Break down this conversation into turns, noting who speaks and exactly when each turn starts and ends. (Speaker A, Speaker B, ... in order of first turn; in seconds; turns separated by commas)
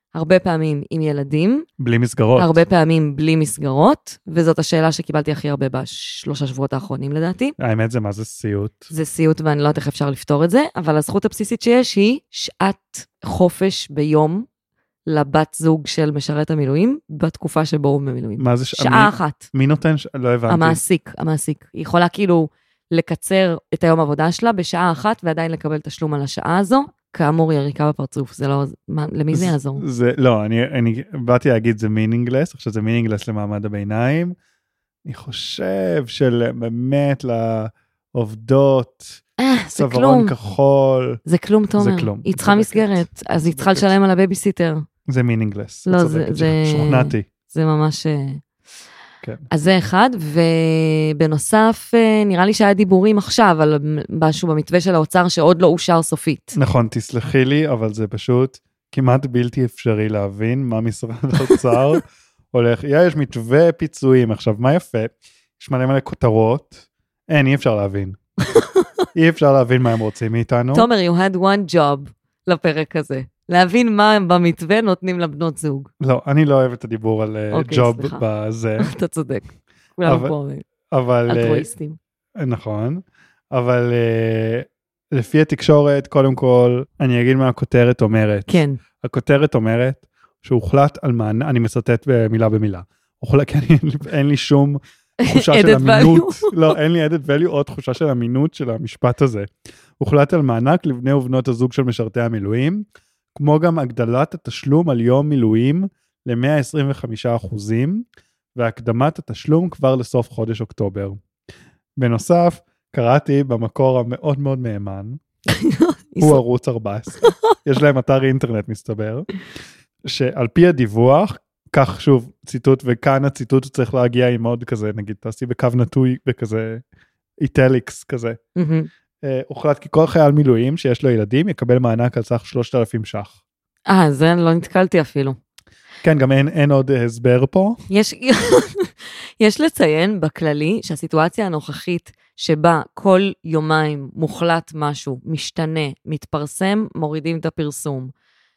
Speaker A: 0.1-1.7, Speaker B: 1.8-2.6, Speaker A: 2.4-7.5, Speaker B: 7.6-8.9, Speaker A: 8.9-14.4, Speaker A: 15.1-19.5, Speaker B: 18.4-20.8, Speaker A: 20.5-29.8, Speaker B: 29.3-34.4, Speaker B: 35.0-39.2, Speaker A: 39.4-40.3, Speaker B: 39.7-41.2, Speaker A: 41.2-44.8, Speaker B: 41.8-43.9, Speaker B: 45.1-47.2, Speaker A: 45.9-48.4, Speaker A: 49.5-56.6, Speaker B: 56.5-68.2, Speaker A: 68.5-68.8, Speaker B: 69.1-70.9, Speaker A: 70.7-75.9, Speaker B: 76.0-78.9, Speaker A: 77.5-78.2, Speaker A: 78.8-80.6, Speaker B: 80.0-80.3, Speaker B: 80.9-81.7, Speaker A: 81.3-82.0, Speaker B: 82.3-111.2, Speaker A: 88.5-88.8, Speaker A: 95.2-96.7, Speaker B: 112.0-115.2, Speaker A: 115.5-116.4, Speaker B: 116.2-119.3, Speaker B: 120.0-126.8, Speaker B: 127.4-128.4, Speaker A: 128.6-128.9, Speaker B: 129.2-133.3, Speaker A: 133.9-135.4, Speaker B: 136.0-137.8, Speaker A: 137.9-148.1